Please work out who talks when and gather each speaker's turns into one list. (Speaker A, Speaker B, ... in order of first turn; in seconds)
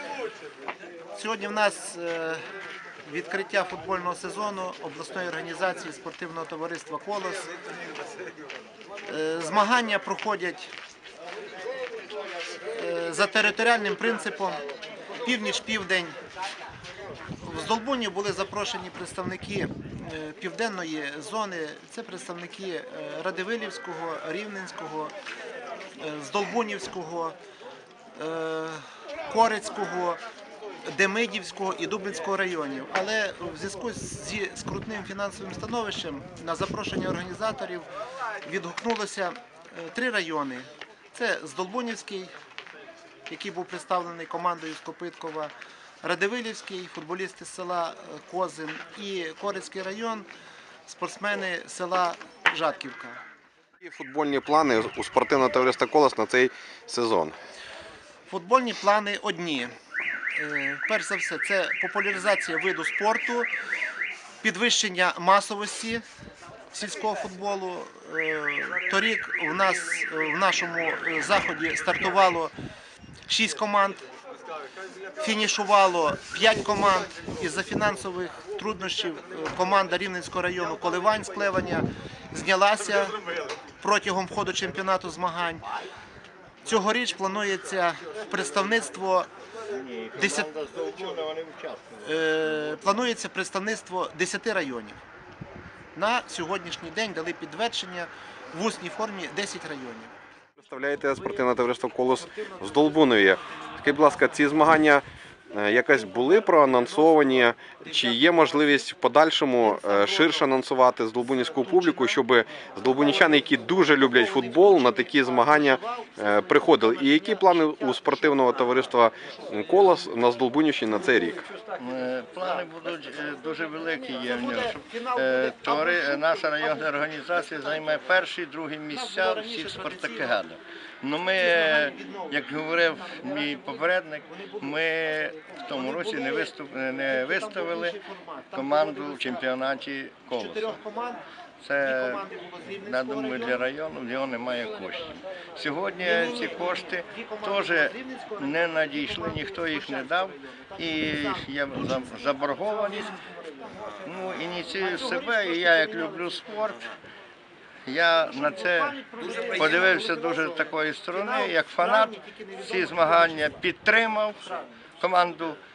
Speaker A: 1.1-2.4, 3.0-7.5, 9.1-10.7, 12.7-14.6, 15.2-16.2, 17.4-25.1, 26.0-27.4, 28.2-30.2, 30.9-37.9, 38.4-42.3, 43.3-50.3, 50.9-53.2, 58.3-59.7, 60.4-63.5, 64.4-66.0, 66.7-72.5, 73.3-74.0, 75.2-83.2, 83.8-85.6, 86.7-89.3, 90.2-90.5, 92.0-95.0, 96.0-100.1, 101.1-104.7, 106.0-108.9, 109.6-110.5, 111.2-112.2, 112.8-118.4, 124.2-127.0, 128.9-130.4, 131.4-136.5, 137.1-139.5, 140.3-141.2, 141.8-143.7, 146.0-154.0, 154.7-156.5, 158.3-163.6
Speaker B: 53.8-57.4, 100.6-121.5
Speaker C: 89.7-92.8, 121.6-138.0, 138.5-140.8, 141.6-142.2, 142.8-153.2, 154.0-157.0, 157.8-164.4, 165.0-165.6